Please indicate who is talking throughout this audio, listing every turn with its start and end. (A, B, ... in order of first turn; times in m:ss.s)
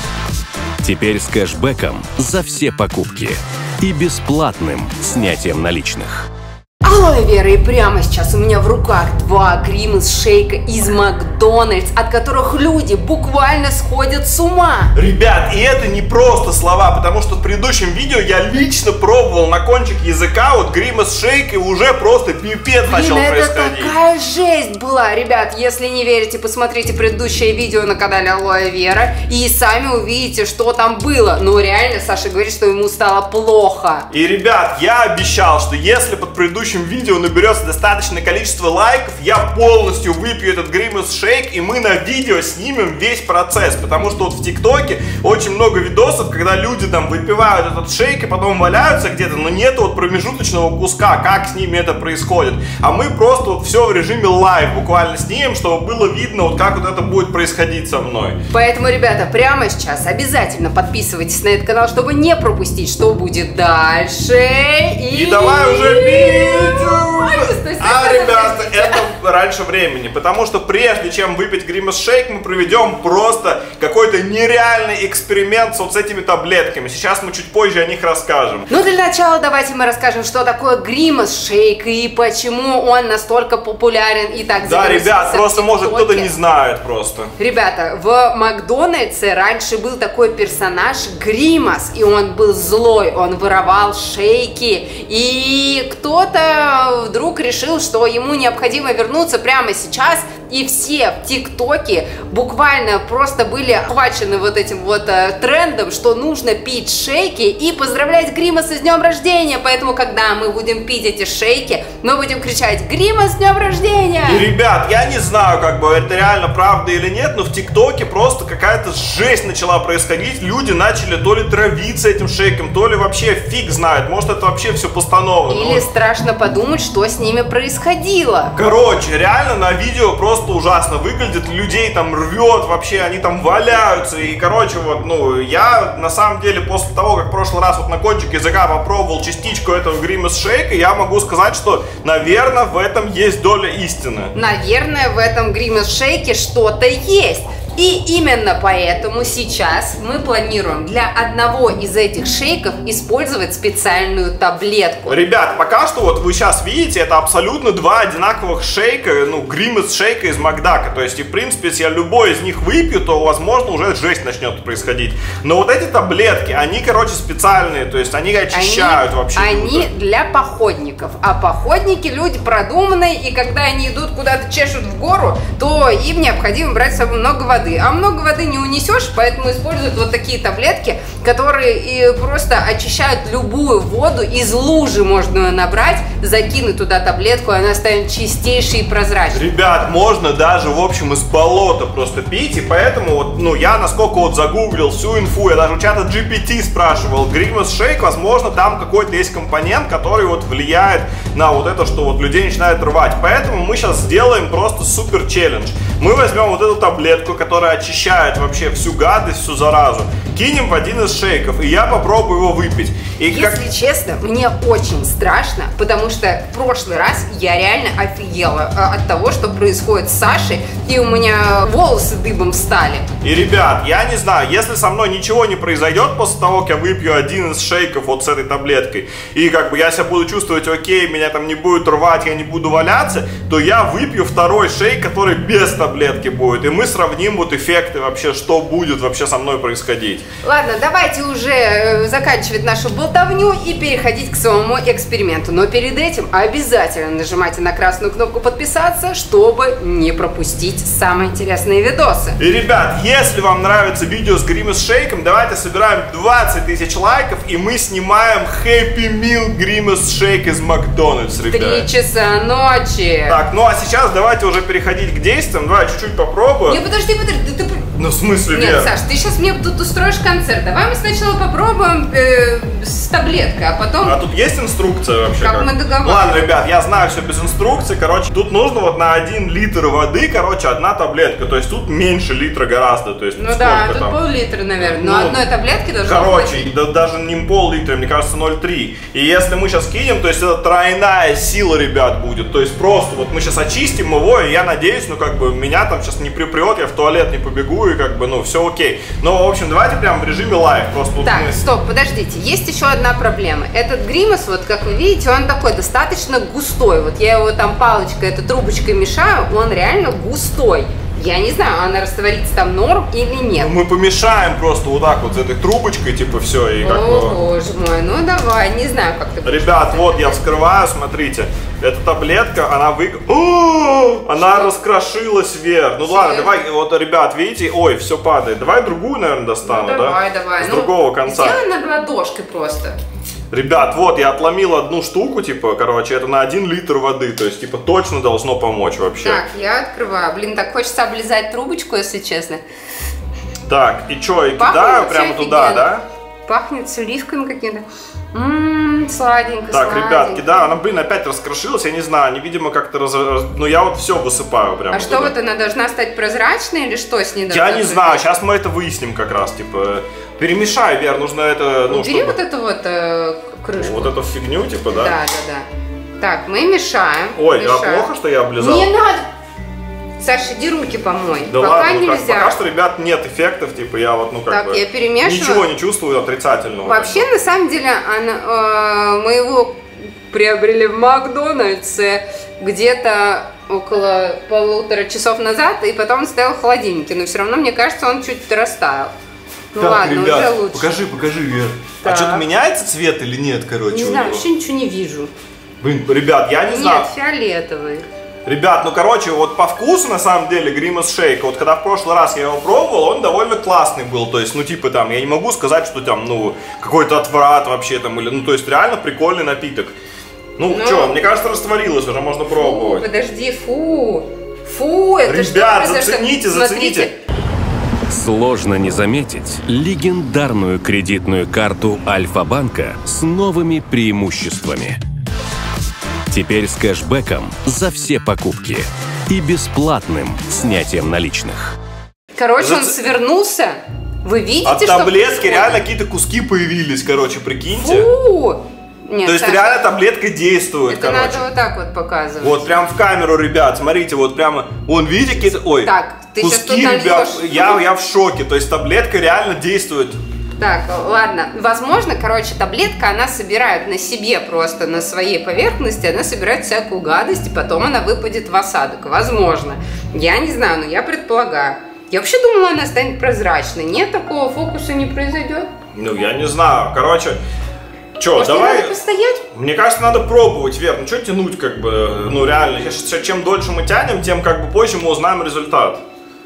0:00.8-0:06.3 A
0:06.8-0:14.9 B
0:14.9-0:23.9 C
0:22.8-0:34.1 B
0:34.1-0:58.4 C
0:58.5-1:09.0 B
1:05.1-1:18.7 C
1:18.7-1:26.3 B
1:24.6-1:27.3 C
1:27.4-1:54.5 B
1:54.2-2:05.9 C
2:05.5-2:08.6 B
2:08.6-2:24.3 C
2:24.3-2:35.2 B
2:35.1-2:49.9 C
2:48.5-3:09.4 B
3:09.3-3:33.6 C
3:33.2-3:43.1 B
3:43.2-4:00.2 C
4:00.4-4:12.4 B
4:12.4-4:21.9 C
4:21.5-4:23.4 B
4:23.3-4:26.8 C
4:26.7-4:27.9 B
4:27.9-4:28.9 C
4:28.5-4:34.2 B
4:34.0-4:44.2 C
4:35.4-4:36.4 B
4:43.3-4:46.7 B
4:44.8-4:45.4 C
4:46.0-5:01.6 C
5:01.2-5:13.7 B
5:13.5-5:17.4 C
5:16.8-5:20.4 B
5:19.4-5:31.6 C
5:24.3-5:24.8 B
5:26.0-5:26.6 B
5:29.6-5:33.0 B
5:33.5-5:39.4 C
5:39.2-5:42.6 B
5:43.7-5:46.0 C
5:44.6-5:45.9 B
5:46.4-5:50.7 B
5:49.7-5:55.3 C
5:54.9-5:58.2 B
5:57.5-6:02.4 C
6:01.9-6:04.2 B
6:03.8-6:05.2 C
6:04.9-6:05.7 B
6:06.2-6:09.3 B
6:07.3-6:08.9 C
6:10.2-6:12.6 B
6:11.4-6:17.3 C
6:14.5-6:15.7 B
6:16.8-6:29.1 B
6:29.7-6:30.9 B
6:29.7-6:34.4 C
6:32.0-6:32.5 B
6:33.9-6:35.3 B
6:35.8-6:37.1 C
6:36.6-6:38.1 B
6:38.4-6:50.0 C
6:50.6-6:53.0 C
6:50.7-6:51.2 B
6:52.5-6:57.1 B
6:55.2-6:57.1 C
6:58.1-7:05.0 A
7:06.3-7:11.7 A
7:12.3-7:15.8 B
7:12.6-7:13.0 C
7:14.6-7:18.1 C
7:17.8-7:19.8 B
7:19.2-7:21.5 C
7:20.9-7:22.7 B
7:22.4-7:30.2 C
7:25.8-7:27.8 B
7:30.6-7:45.7 B
7:45.9-7:47.4 C
7:48.2-7:49.0 C
7:48.3-7:49.4 B
7:49.5-7:56.0 C